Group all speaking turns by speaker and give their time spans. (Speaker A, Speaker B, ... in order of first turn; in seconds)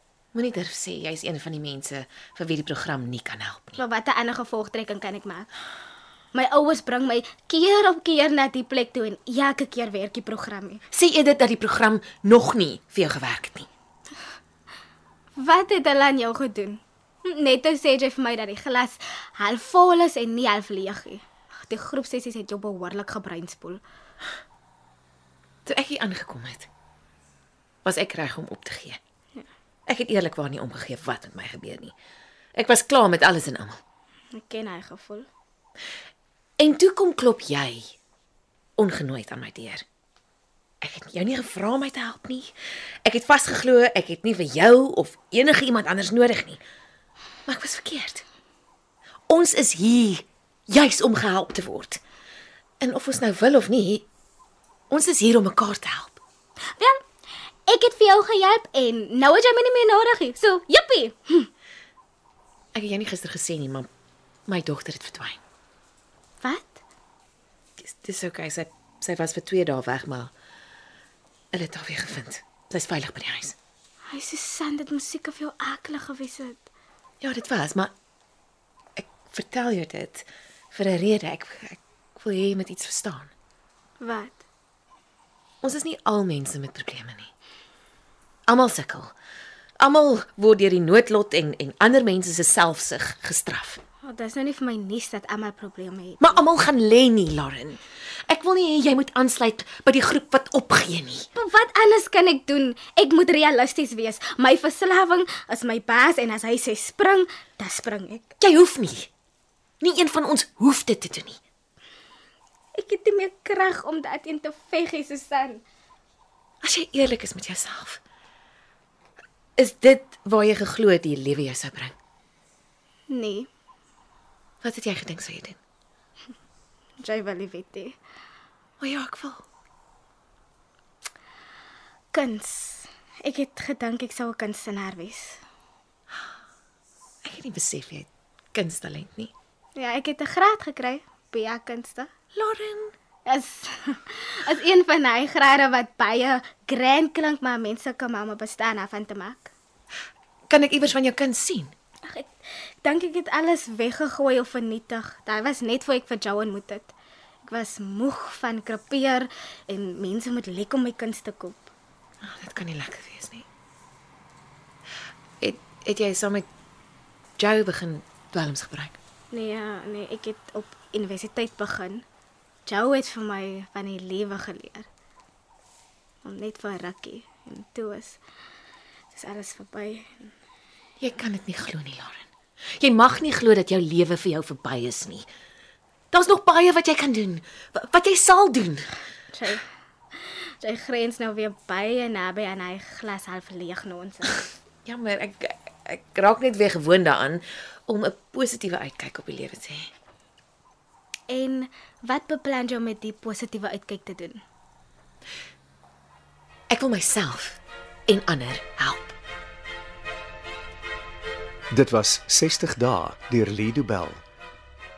Speaker A: 0.3-3.8, 10.9-13.7, 25.7-26.7, 27.8-29.0, 29.9-31.9, 32.6-33.8, 36.6-37.9, 38.8-39.8, 40.8-42.5, 43.0-46.6, 47.5-48.2, 49.3-52.0, 52.8-54.1, 54.9-56.2, 62.7-63.9, 64.5-65.4, 67.8-70.3, 71.5-73.6, 77.2-77.9, 79.0-83.3, 85.6-87.3, 88.5-89.1, 89.8-93.8, 96.2-101.3, 108.4-109.1, 109.8-111.4, 116.6-118.0, 119.6-121.9, 124.6-125.6, 128.8-129.4, 137.2-139.3, 142.3-142.9, 150.5-151.7, 162.2-163.4, 165.4-166.5, 167.4-169.0, 181.0-182.3, 182.8-185.3, 186.1-188.9, 194.8-199.9, 206.7-209.2
Speaker B: 3.8-5.5, 6.3-10.8, 15.4-23.8, 34.3-35.3, 57.7-61.5, 66.4-66.8, 74.1-76.7, 84.0-84.4, 94.0-96.4, 101.3-108.3, 112.8-115.6, 123.1-123.5, 127.0-128.0, 132.1-135.4, 139.8-142.1, 143.2-149.5, 152.1-156.9, 157.4-161.7, 169.3-172.0, 172.7-174.9, 176.2-178.2, 179.1-180.3, 189.3-189.6, 190.6-194.4, 201.3-204.4
Speaker C: 211.7-214.2